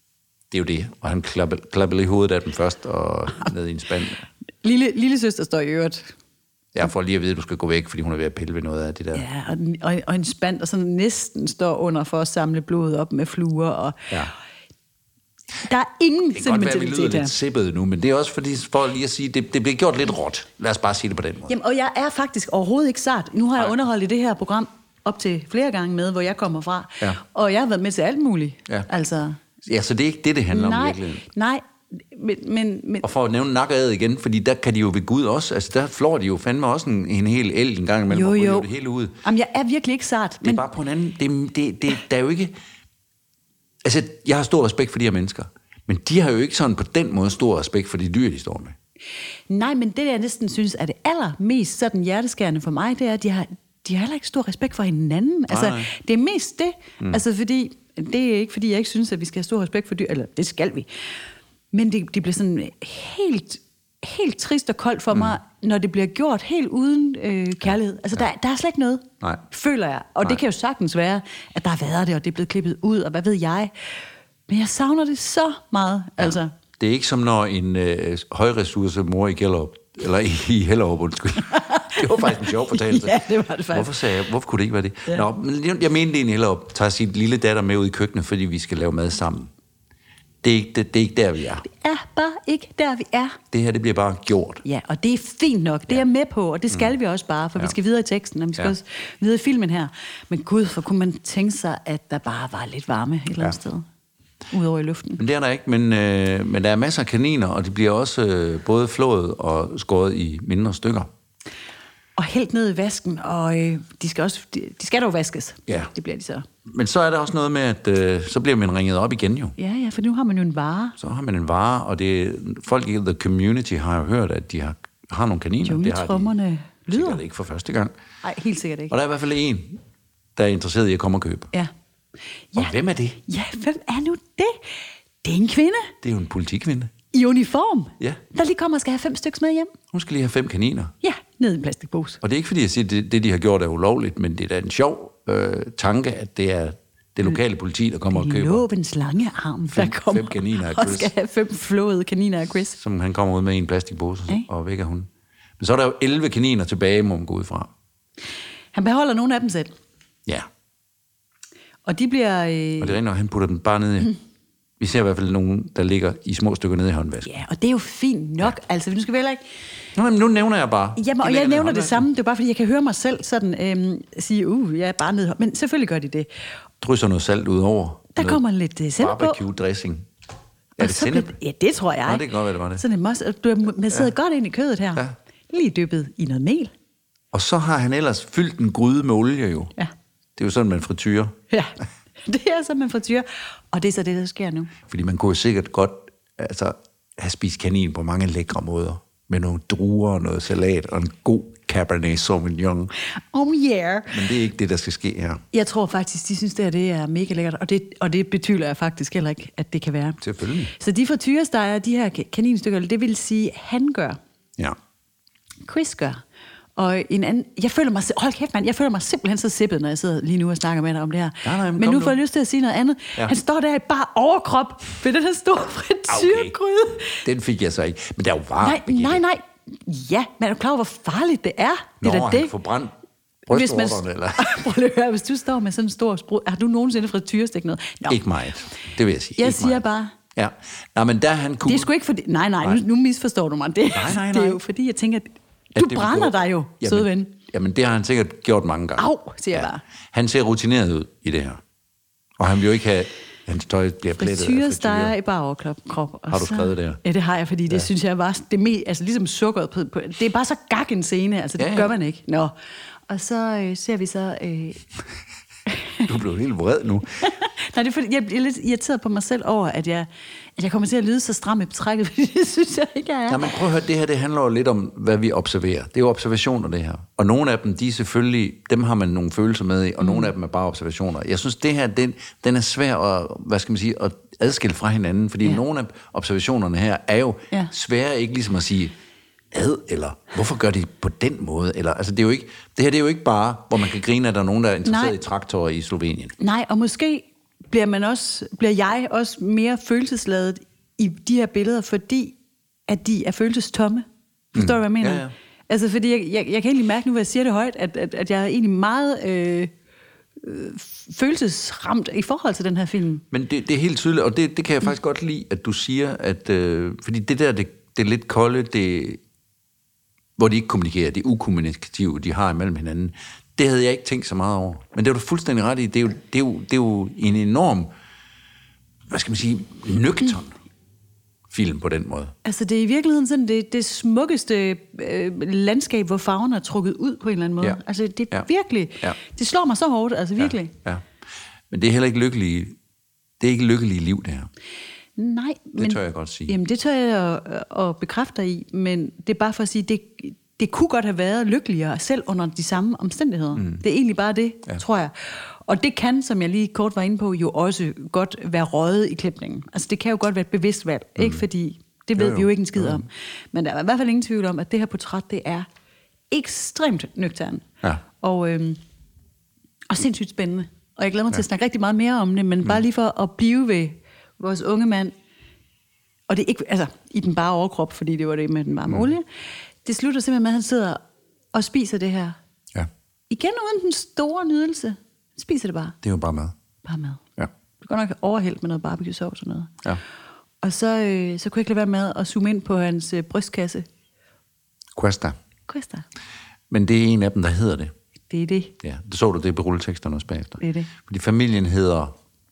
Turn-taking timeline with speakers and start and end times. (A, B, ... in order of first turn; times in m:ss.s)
0:00.5-0:04.3 A
0:04.6-0:06.1 B
0:06.7-0:09.2 A
0:09.1-0:14.2 B
0:15.6-0:17.4 B
0:16.3-0:21.6 A
0:21.5-0:29.4 B
0:29.6-0:31.2 A
0:30.5-0:33.1 B
0:33.0-0:39.2 A
0:38.1-0:38.7 B
0:39.2-0:40.6 B
0:40.4-0:42.5 A
0:43.8-0:48.8 A
0:49.5-1:00.9 B
0:55.5-0:55.9 A
1:01.7-1:13.9 B
1:14.5-1:16.5 B
1:16.2-1:29.5 A
1:21.5-1:24.0 B
1:30.4-1:31.6 A
1:31.6-1:33.4 B
1:33.5-1:34.6 A
1:34.6-1:43.9 B
1:44.5-1:45.2 B
1:45.2-1:51.1 A
1:52.2-1:56.5 B
1:56.6-1:59.6 A
1:59.6-2:01.0 B
2:01.0-2:06.3 A
2:05.6-2:07.2 B
2:06.9-2:07.9 A
2:08.2-2:09.0 B
2:08.9-2:09.8 A
2:10.4-2:11.5 A
2:12.6-2:13.2 A
2:13.3-2:15.9 B
2:16.0-2:16.9 A
2:17.1-2:19.7 B
2:19.9-2:20.9 A
2:21.0-2:22.2 B
2:22.2-2:28.6 A
2:28.1-2:32.8 B
2:29.7-2:31.1 A
2:32.8-2:37.7 A
2:38.7-2:39.7 B
2:41.9-2:43.0 B
2:42.8-2:44.2 A
2:44.8-2:47.3 A
2:47.2-2:49.4 B
2:50.0-2:52.1 A
2:51.0-2:56.3 B
2:56.8-2:58.4 A
2:58.2-2:59.4 B
2:59.0-3:00.1 A
3:00.8-3:01.4 A
3:00.8-3:06.7 B
3:02.0-3:02.8 A
3:07.3-3:09.7 A
3:10.4-3:11.4 A
3:11.5-3:14.7 B
3:14.9-3:22.9 A
3:23.1-3:24.2 B
3:24.1-3:25.4 A
3:25.5-3:34.2 B
3:30.2-3:30.7 A
3:35.7-3:36.2 B
3:36.8-3:47.2 B
3:41.4-3:42.2 A
3:46.1-3:46.5 A
3:47.1-3:49.2 A
3:48.6-3:52.5 B
3:52.0-3:52.9 A
3:53.5-3:54.6 A
3:53.5-3:58.2 B
3:58.1-4:01.9 A
3:59.4-4:00.1 B
4:01.6-4:07.4 B
4:03.9-4:04.6 A
4:05.8-4:11.6 A
4:09.0-4:09.8 B
4:12.4-4:15.1 A
4:14.2-4:22.5 B
4:16.3-4:17.0 A
4:21.6-4:21.9 A
4:23.1-4:24.8 B
4:25.7-4:26.0 B
4:26.0-4:27.3 A
4:27.2-4:33.6 B
4:33.3-4:48.9 A
4:40.0-4:40.3 B
4:49.5-4:56.4 A
4:54.8-4:55.2 B
4:56.4-5:02.4 B
5:02.9-5:09.7 B
5:04.5-5:05.3 A
5:10.4-5:13.2 B
5:13.3-5:19.2 A
5:20.4-5:27.9 A
5:29.1-5:30.6 A
5:31.5-5:32.3 A
5:32.4-5:40.7 B
5:40.4-5:41.0 A
5:41.7-5:42.8 A
5:43.4-5:44.5 A
5:45.2-6:05.7 B
5:45.8-5:46.6 A
6:01.2-6:01.4 A
6:02.2-6:03.0 A
6:06.3-6:08.8 B
6:09.9-6:15.1 B
6:16.3-6:19.3 B
6:19.8-6:21.0 B
6:21.5-6:22.4 B
6:23.3-6:26.0 B
6:26.0-6:26.6 A
6:26.8-6:27.3 B
6:27.8-6:29.8 B
6:30.6-6:33.9 B
6:35.0-6:35.4 A
6:35.7-6:36.1 B
6:36.7-6:37.9 A
6:38.3-6:38.7 B
6:38.8-6:42.1 A
6:40.6-6:40.9 B